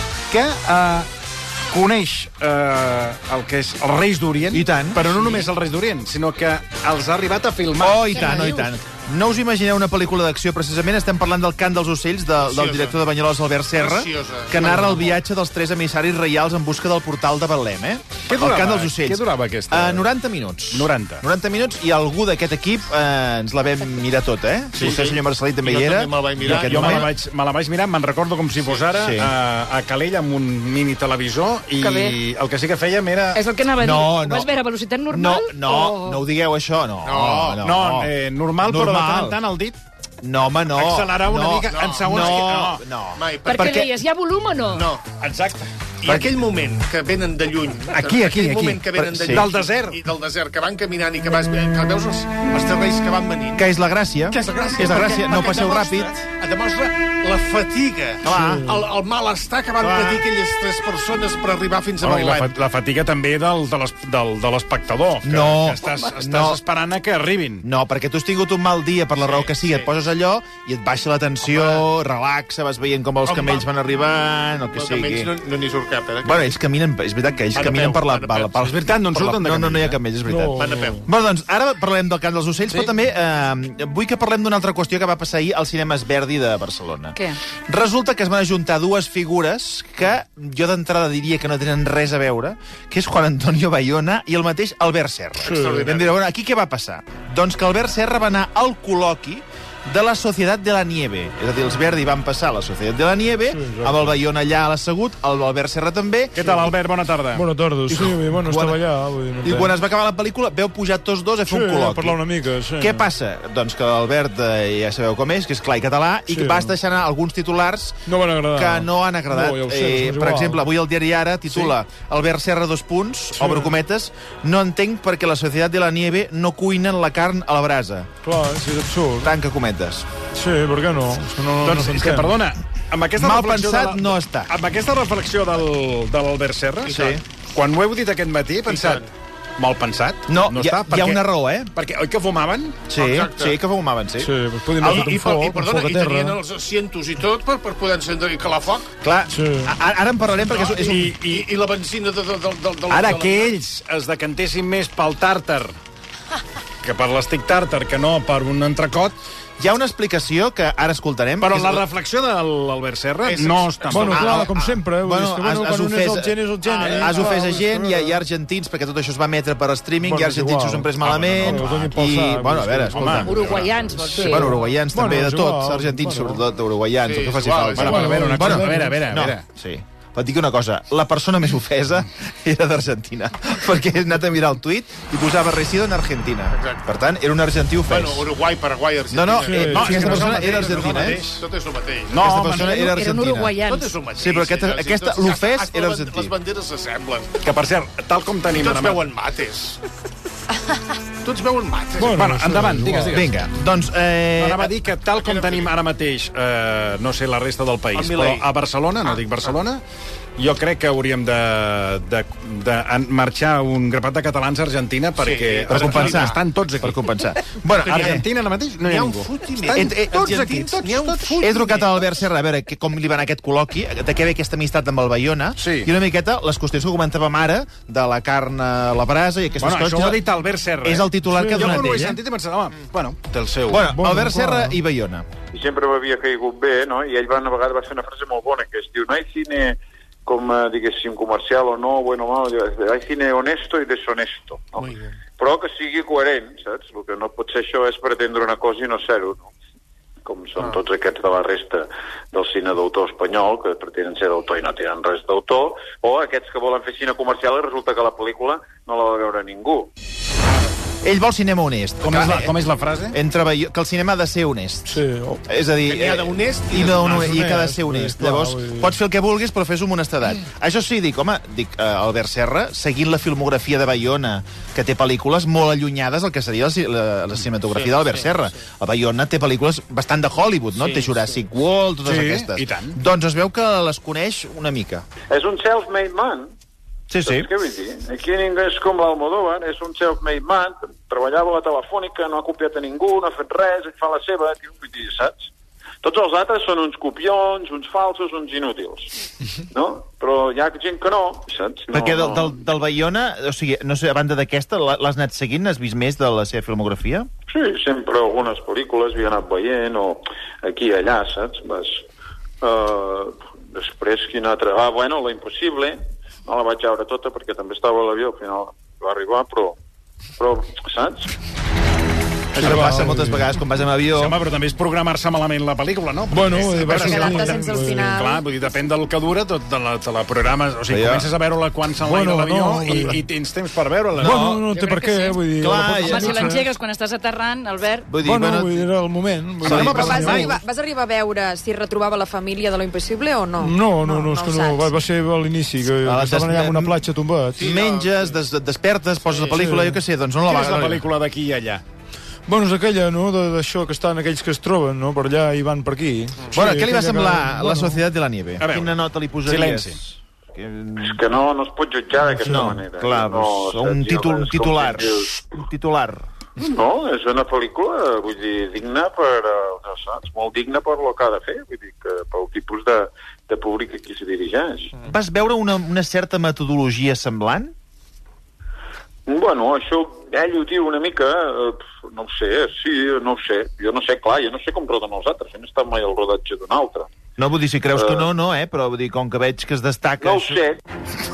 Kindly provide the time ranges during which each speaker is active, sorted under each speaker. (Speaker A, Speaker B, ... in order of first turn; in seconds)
Speaker A: 0.3-1.1, 1.7-8.3, 18.3-20.1, 20.7-21.2, 26.4-33.4, 37.6-39.8, 40.7-42.8, 45.2-45.7, 47.9-50.0, 62.0-67.6, 78.3-80.0, 106.3-107.5, 131.6-142.8, 150.9-151.4, 152.9-155.7, 156.8-159.1, 161.4-164.5, 171.0-172.0, 172.9-173.6, 177.8-179.4, 189.6-191.4, 192.1-192.9, 197.4-199.0, 202.0-203.4, 204.4-209.8, 210.4-217.0, 217.8-221.4, 225.6-225.9, 229.6-233.8, 262.0-263.2, 282.0-283.0, 322.5-323.0, 324.1-334.5, 339.6-340.5, 350.4-351.8, 358.6-358.9, 359.4-360.0
Speaker B: 4.5-5.0, 7.8-27.1, 28.9-29.3, 33.8-34.5, 35.1-38.1, 38.6-39.4, 40.2-43.9, 46.0-46.3, 49.0-49.5, 53.5-56.1, 58.2-58.8, 59.8-60.2, 65.2-66.6, 67.6-75.3, 76.2-106.4, 107.9-108.8, 109.4-112.2, 112.8-128.1, 129.2-130.1, 133.2-134.5, 136.9-137.2, 140.3-141.7, 142.9-144.3, 149.0-151.1, 159.6-161.8, 163.9-188.3, 189.1-191.2, 192.2-193.6, 194.2-196.3, 203.1-204.7, 215.7-218.2, 219.7-220.8, 221.4-230.2, 230.8-232.2, 233.7-235.2, 261.0-262.5, 263.1-285.1, 287.1-287.5, 301.9-307.3, 322.6-324.4, 330.9-331.3, 334.2-334.7, 335.6-336.6, 338.1-338.9, 339.6-340.6, 346.0-347.0, 347.6-351.0, 356.5-361.2, 362.4-366.2, 375.0-377.7, 387.4-390.6
Speaker C: 12.4-13.0, 13.8-15.2, 24.7-27.1, 37.0-37.6, 41.6-42.5, 43.1-43.7, 44.7-45.0, 46.0-53.7, 54.3-62.5, 69.2-69.9, 71.4-71.8, 73.2-73.7, 74.7-76.5, 77.5-78.5, 80.5-81.0, 95.4-96.2, 136.8-137.2, 138.7-139.1, 142.9-143.6, 144.8-148.9, 150.5-153.5, 163.2-164.8, 166.7-167.1, 177.0-178.2, 186.5-186.9, 187.9-192.2, 193.7-197.3, 198.5-199.8, 201.2-202.1, 205.1-205.7, 207.9-208.5, 215.2-216.3, 217.7-218.2, 218.8-222.0, 244.8-245.2, 265.9-267.2, 277.6-278.4, 280.7-281.4, 347.6-348.4
Speaker D: 31.8-32.2, 33.3-36.2, 43.4-44.9, 173.2-174.6, 192.5-194.0, 334.7-335.4, 336.0-338.1
Speaker E: 80.2-81.0, 95.5-95.9, 103.5-104.2, 106.4-106.7, 107.3-109.7, 111.5-113.1, 116.3-116.8, 118.0-120.6, 123.4-123.7, 128.2-129.3, 130.3-132.3, 144.2-146.4, 149.3-149.7, 163.9-168.2, 170.0-176.4, 177.9-179.1, 189.5-190.4, 202.0-203.2, 231.2-232.0, 233.8-234.8, 264.9-265.4, 267.2-268.9, 322.6-323.5, 326.3-328.1, 332.0-333.2, 334.2-336.6, 338.2-340.5, 343.6-347.7, 349.5-350.0, 352.5-358.0
Speaker F: 235.5-249.5, 250.2-259.9, 285.3-286.5, 287.2-295.5, 296.0-299.1, 299.7-302.6, 307.5-312.0, 312.6-319.8, 320.4-321.3, 361.0-365.4, 366.6-375.0, 379.3-387.1, 387.9-388.3, 390.2-390.8
Speaker G: 326.7-328.4, 339.9-344.9